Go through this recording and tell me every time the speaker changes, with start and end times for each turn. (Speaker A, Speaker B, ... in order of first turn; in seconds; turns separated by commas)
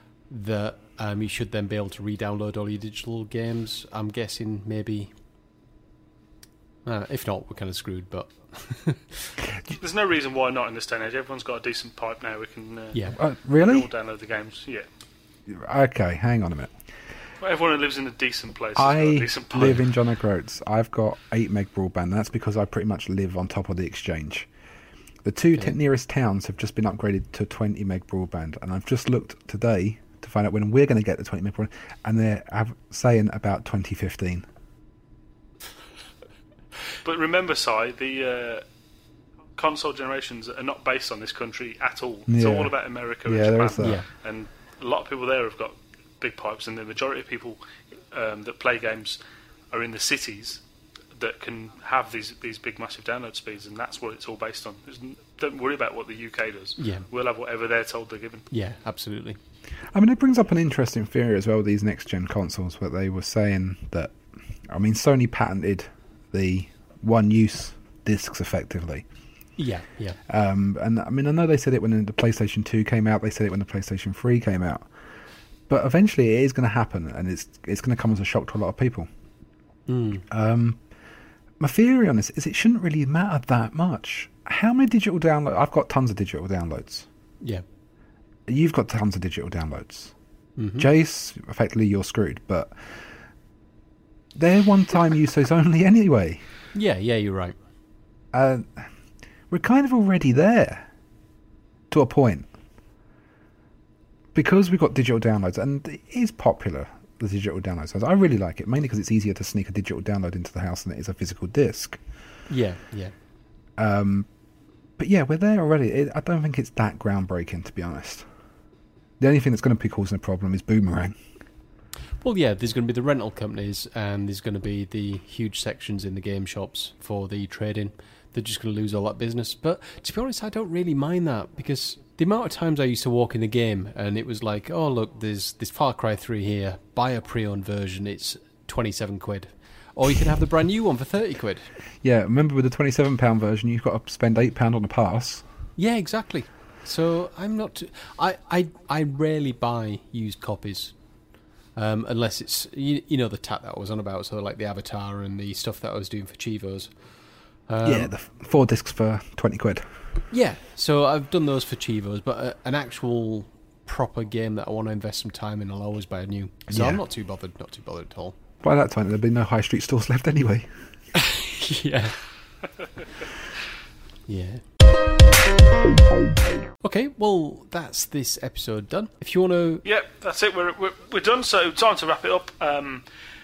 Speaker A: 0.3-5.1, Speaker A: 6.8-9.3, Speaker B: 9.7-14.9, Speaker C: 13.2-13.9, Speaker C: 15.5-16.7, Speaker B: 17.4-19.8, Speaker C: 18.8-24.5, Speaker C: 25.2-34.5, Speaker B: 37.0-38.6, Speaker B: 39.6-47.6, Speaker C: 42.3-42.7, Speaker C: 43.2-44.0, Speaker A: 43.8-44.1, Speaker B: 48.1-49.2, Speaker B: 49.7-50.6, Speaker B: 51.1-58.5, Speaker A: 56.8-57.1, Speaker A: 58.5-59.4, Speaker C: 59.9-64.2, Speaker C: 64.7-69.0, Speaker A: 69.6-70.2, Speaker C: 70.3-74.9, Speaker C: 75.7-79.1, Speaker A: 79.9-80.2, Speaker C: 80.3-80.8, Speaker C: 81.6-87.1, Speaker C: 88.5-90.1, Speaker A: 90.6-90.9, Speaker C: 90.8-93.1, Speaker C: 94.3-96.4, Speaker A: 96.7-97.6, Speaker C: 98.3-98.9, Speaker C: 99.5-100.9, Speaker C: 101.9-102.5, Speaker C: 104.3-112.0, Speaker A: 112.5-113.1, Speaker C: 113.8-114.3, Speaker C: 115.0-118.3, Speaker C: 119.2-121.2, Speaker A: 122.2-141.7, Speaker C: 142.0-145.5, Speaker A: 145.8-150.9, Speaker A: 151.8-157.0, Speaker A: 157.7-158.1, Speaker C: 157.8-159.9, Speaker A: 160.3-168.4, Speaker C: 166.7-167.0, Speaker C: 168.6-170.7, Speaker A: 171.2-172.2, Speaker A: 174.3-174.6, Speaker A: 176.8-179.8, Speaker B: 179.8-183.1